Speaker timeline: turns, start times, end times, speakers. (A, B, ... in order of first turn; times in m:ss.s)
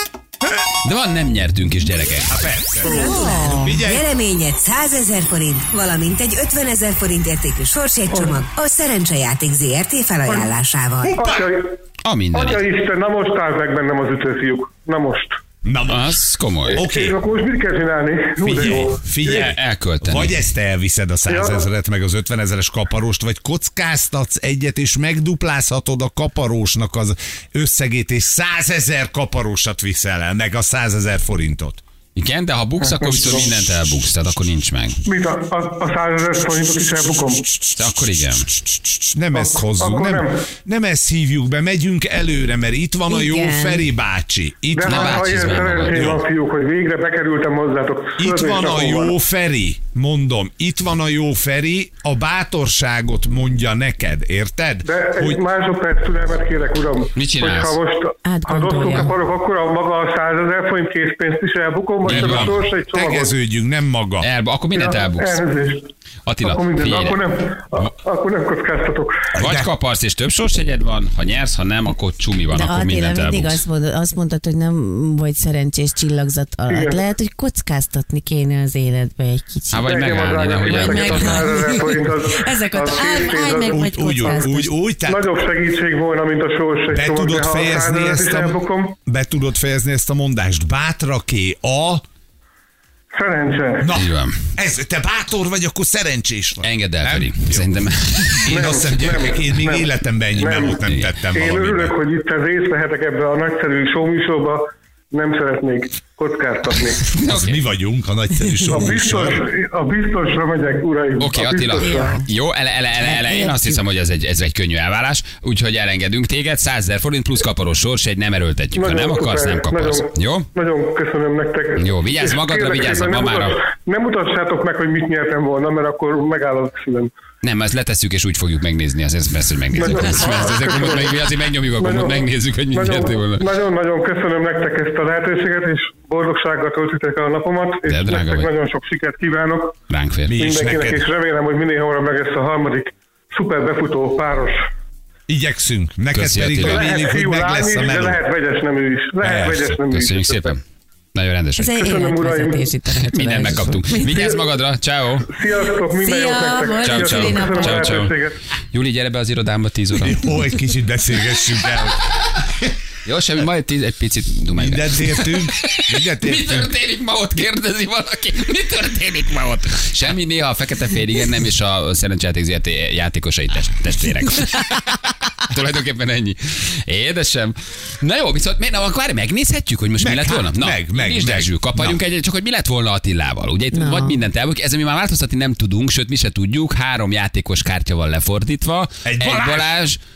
0:00.8-0:02.4 A
0:02.3-0:04.0 B
0:02.8-0:11.2 C
0:02.8-0:03.7 D
0:08.1-0:08.4 E
0:11.0-0:11.8 E
0:11.2-0:11.5 B
0:12.0-0:12.6 A
0:12.3-0:15.4 E
0:15.6-0:17.2 B
0:15.9-0:16.8 A
0:16.7-0:19.6 E
0:18.4-0:31.8 B
0:19.2-0:20.4 A
0:21.3-0:21.6 E
0:32.2-0:35.0 A
0:32.8-0:33.4 E
0:33.1-0:34.5 B
0:35.1-0:37.4 E
0:36.6-0:46.2 B
0:37.8-0:38.5 A
0:39.3-0:40.5 E
0:43.1-0:43.8 D
0:44.7-0:49.2 E
0:44.9-0:46.1 A
0:48.2-0:55.4 B
0:54.8-1:03.3 E
0:57.2-0:57.8 A
0:58.2-0:59.1 D
1:02.0-1:02.6 A
1:02.1-1:04.3 B
1:04.2-1:05.4 A
1:04.8-1:05.9 E
1:06.3-1:07.2 A
1:06.4-1:09.2 E
1:09.4-1:09.7 B
1:09.4-1:13.6 A
1:12.5-1:19.9 D
1:16.7-1:17.0 E
1:19.7-1:21.8 A
1:19.8-1:24.4 E
1:20.6-1:24.7 D
1:23.7-1:25.4 B
1:25.1-1:29.0 E
1:26.9-1:32.0 B
1:33.1-1:33.9 E
1:33.8-1:42.0 B
1:34.0-1:34.4 A
1:36.6-1:38.8 A
1:38.5-1:47.1 E
1:47.1-1:47.6 A
1:47.1-1:49.5 B
1:48.7-1:52.2 E
1:51.2-2:00.5 A
1:51.8-1:52.3 D
1:53.0-1:53.8 D
1:58.8-2:07.1 E
2:01.8-2:03.6 A
2:07.4-2:13.5 A
2:09.7-2:11.2 E
2:11.8-2:19.8 E
2:17.9-2:18.5 A
2:19.9-2:20.5 A
2:20.3-2:21.0 B
2:20.4-2:24.6 E
2:25.3-2:28.2 B
2:26.1-2:26.9 A
2:26.6-2:30.5 E
2:29.2-2:29.8 B
2:29.9-2:30.6 A
2:31.2-2:31.9 A
2:31.6-2:34.2 D
2:31.7-2:32.7 E
2:33.0-2:35.3 A
2:35.3-2:38.4 E
2:35.9-2:38.1 D
2:36.8-2:38.2 A
2:38.7-2:40.5 A
2:40.0-2:42.5 B
2:43.0-3:10.0 A
2:44.5-2:46.7 B
3:00.0-3:02.0 B
3:03.7-3:04.2 D
3:09.0-3:09.7 B